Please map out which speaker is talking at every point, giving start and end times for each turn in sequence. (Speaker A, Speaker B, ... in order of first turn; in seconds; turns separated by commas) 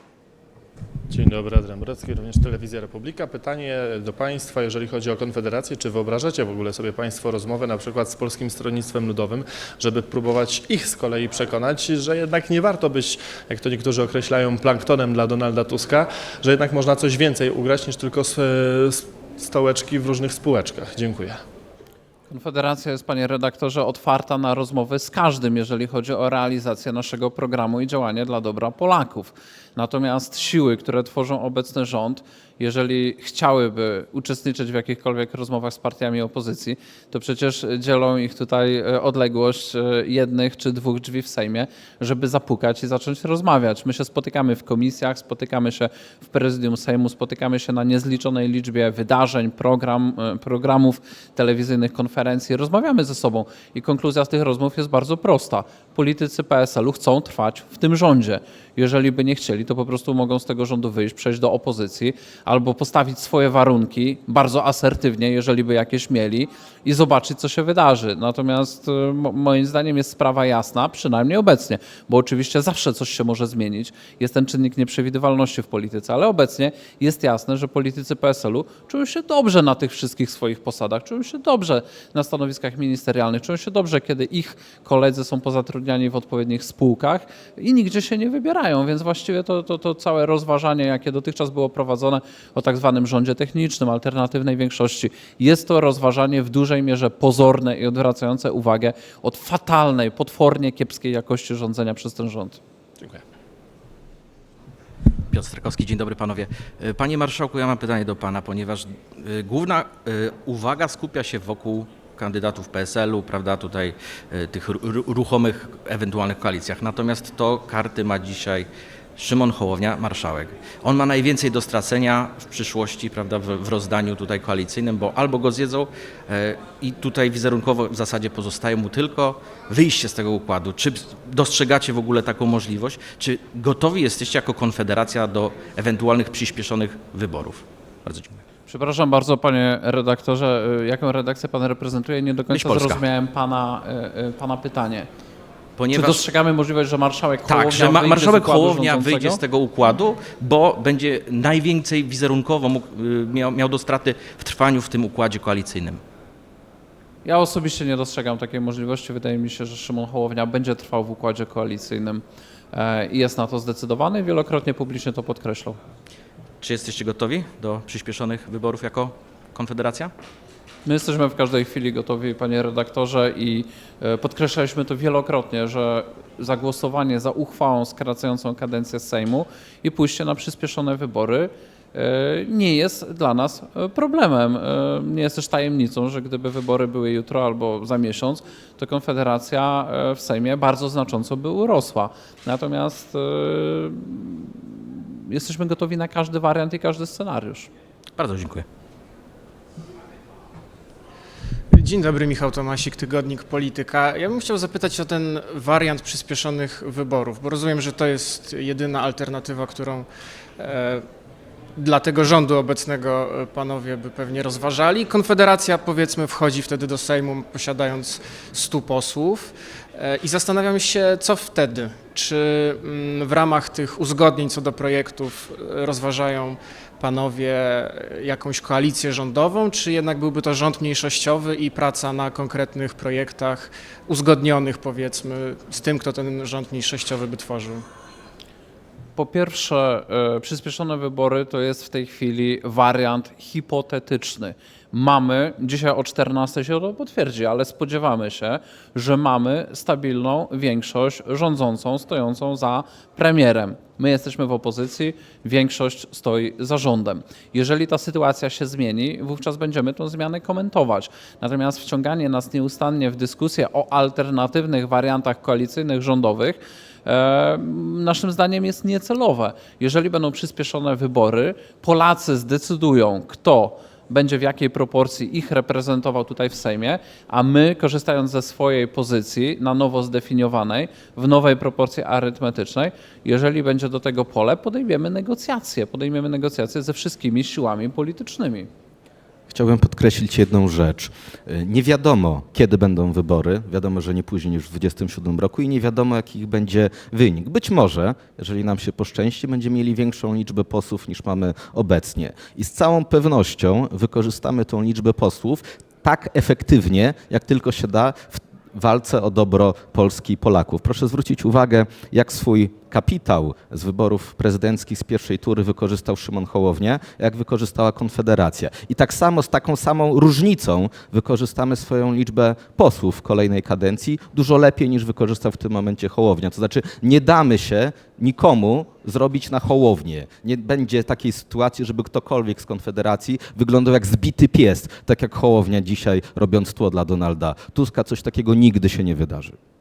Speaker A: 1.1-21.4, Speaker B: 22.3-102.6, Speaker C: 105.3-138.4, Speaker B: 138.7-145.1, Speaker C: 142.5-143.0, Speaker C: 145.8-146.2, Speaker B: 145.9-149.4, Speaker C: 147.5-156.0, Speaker B: 157.2-165.8, Speaker C: 166.6-170.1, Speaker B: 170.8-197.7, Speaker C: 198.2-198.7, Speaker D: 201.7-211.1, Speaker D: 211.8-237.8, Speaker B: 239.2-288.7, Speaker E: 289.5-339.6